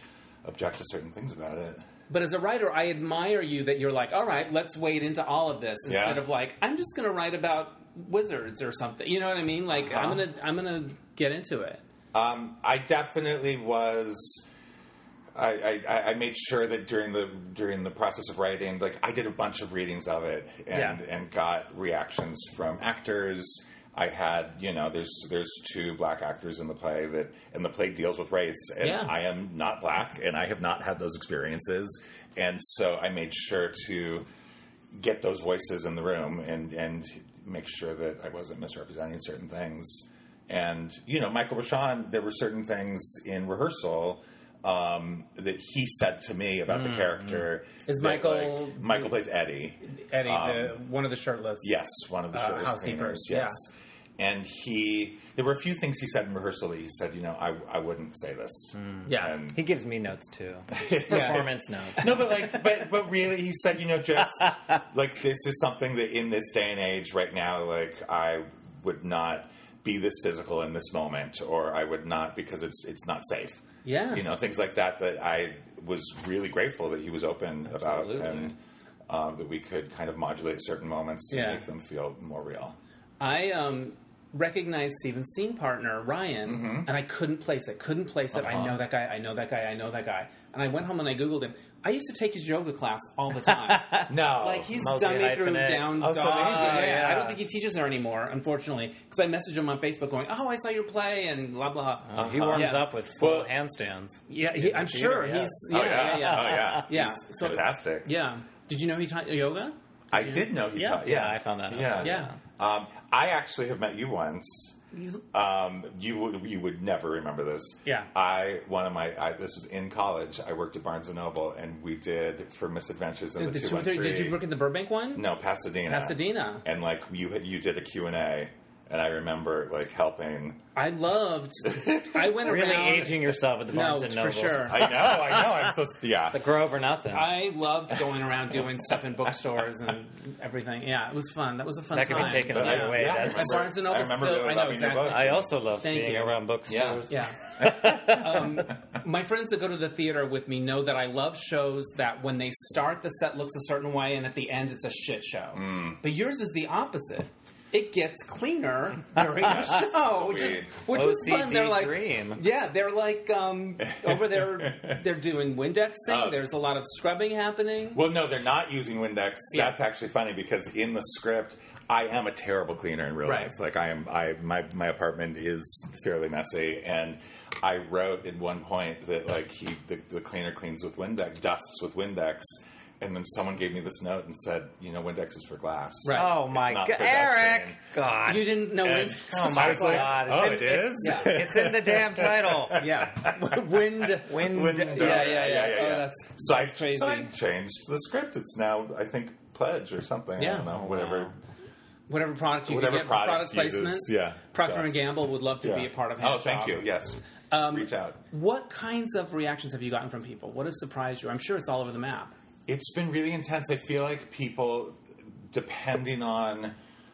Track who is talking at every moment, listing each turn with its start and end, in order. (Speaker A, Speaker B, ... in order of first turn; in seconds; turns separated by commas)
Speaker A: 0.4-1.8, Speaker B: 2.1-11.8, Speaker A: 5.9-6.2, Speaker A: 9.8-10.2, Speaker A: 12.1-14.4, Speaker A: 15.3-34.2, Speaker B: 20.7-21.0, Speaker B: 28.8-29.1, Speaker A: 34.9-50.8, Speaker C: 46.9-47.3, Speaker B: 47.9-49.1, Speaker B: 49.9-51.8, Speaker A: 51.6-53.7, Speaker B: 52.3-53.6, Speaker A: 54.2-59.6, Speaker C: 58.8-62.5, Speaker B: 59.1-59.3, Speaker A: 60.7-78.6, Speaker B: 61.1-61.4, Speaker B: 73.8-74.2, Speaker C: 77.7-78.5, Speaker A: 79.1-82.8, Speaker B: 81.3-81.6, Speaker B: 83.2-102.9, Speaker A: 86.5-86.9, Speaker A: 88.3-88.8, Speaker C: 93.5-94.1, Speaker A: 94.1-94.8, Speaker C: 94.7-97.4, Speaker A: 96.2-96.9, Speaker C: 102.1-106.8, Speaker A: 102.2-103.5, Speaker B: 104.3-111.0, Speaker A: 105.7-108.1, Speaker A: 110.1-114.8, Speaker C: 110.9-112.4, Speaker B: 112.0-112.3, Speaker B: 114.9-115.2, Speaker A: 115.3-124.4, Speaker B: 123.4-125.2, Speaker A: 125.1-130.6, Speaker B: 125.9-126.6, Speaker B: 130.7-133.2, Speaker A: 131.7-132.5, Speaker C: 132.4-135.7, Speaker B: 133.7-134.9, Speaker A: 134.7-136.5, Speaker C: 136.3-137.4, Speaker B: 137.1-146.4, Speaker C: 141.9-143.7, Speaker A: 142.1-145.5, Speaker C: 145.0-148.5, Speaker A: 146.7-148.6, Speaker B: 147.1-168.0, Speaker A: 155.5-156.0, Speaker A: 159.2-160.8, Speaker C: 160.9-162.4, Speaker A: 163.8-165.0, Speaker A: 166.1-166.4, Speaker A: 167.9-187.8, Speaker B: 173.2-173.5, Speaker B: 186.0-186.3, Speaker C: 186.1-192.8, Speaker B: 188.3-190.2, Speaker A: 188.8-201.3, Speaker B: 191.0-191.4, Speaker B: 192.7-197.3, Speaker C: 194.2-195.4, Speaker B: 200.4-201.3, Speaker B: 202.1-206.8, Speaker A: 202.7-208.2, Speaker B: 207.5-212.3, Speaker A: 212.7-215.0, Speaker A: 215.5-216.7